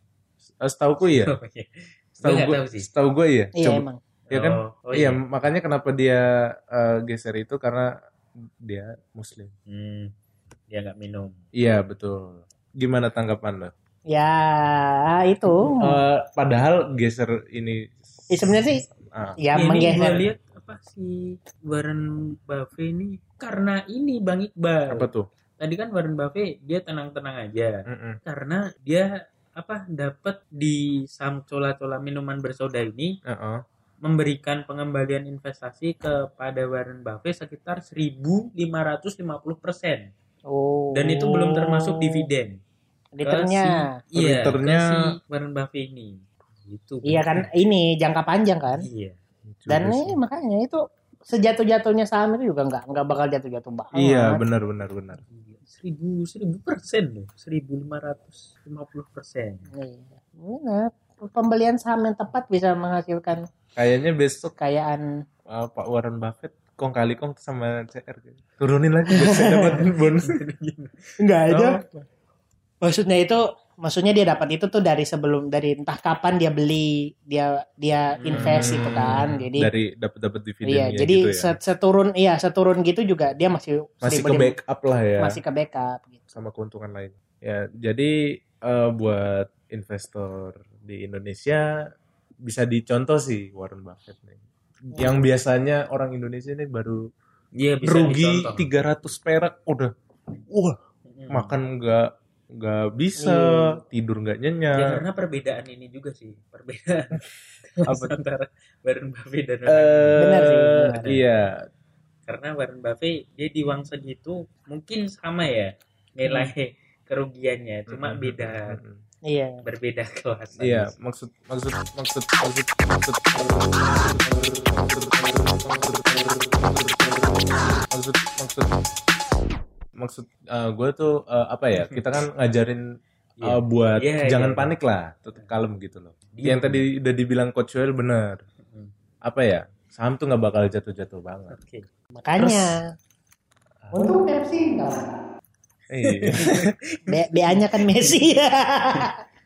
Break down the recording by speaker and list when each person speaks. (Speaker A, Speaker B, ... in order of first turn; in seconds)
Speaker A: 0.6-1.3, 2.2-7.9, 8.7-9.5, 11.6-13.7, 15.8-20.0, 24.9-25.2, 27.9-28.2, 33.3-33.6, 41.6-41.9, 43.2-43.6, 44.1-45.0, 49.5-50.1, 53.9-55.2, 63.7-64.5, 65.5-70.4, 71.5-71.8, 78.3-81.5, 84.0-85.4, 86.3-88.1, 88.7-91.6, 92.5-94.4, 94.9-97.0, 97.8-99.9, 100.5-100.8, 101.3-102.1, 102.6-105.0, 107.8-108.2, 109.7-111.5, 117.9-119.0, 120.6-128.7, 130.0-132.8, 133.4-138.4, 139.2-141.6, 142.4-142.6, 143.8-144.1, 145.9-146.7
Speaker B: 1.1-2.8, 4.3-5.2, 9.7-10.1, 10.7-11.3, 19.5-25.1, 25.6-27.7, 28.2-33.1, 34.0-40.1, 40.9-42.6, 44.1-47.5, 48.8-49.2, 55.1-59.7, 70.2-71.2, 78.3-78.7, 97.5-98.7, 101.1-101.6, 104.7-107.2, 107.8-111.4, 112.2-118.8, 119.6-120.9, 131.8-132.0, 133.4-134.7, 136.3-136.8, 138.7-138.9, 141.5-141.8, 146.0-147.6
Speaker C: 3.5-4.0, 14.1-16.0, 18.3-18.8, 19.4-20.2, 40.5-41.2, 43.1-43.7, 47.1-48.8, 49.7-54.4, 59.7-63.4, 64.6-65.0, 69.1-69.9, 71.2-71.8, 72.8-79.7, 80.6-84.5, 85.2-86.3, 94.9-95.3, 103.2-103.8, 110.2-111.1, 116.2-116.5, 119.2-119.6, 142.1-142.8, 143.9-145.1, 147.1-149.2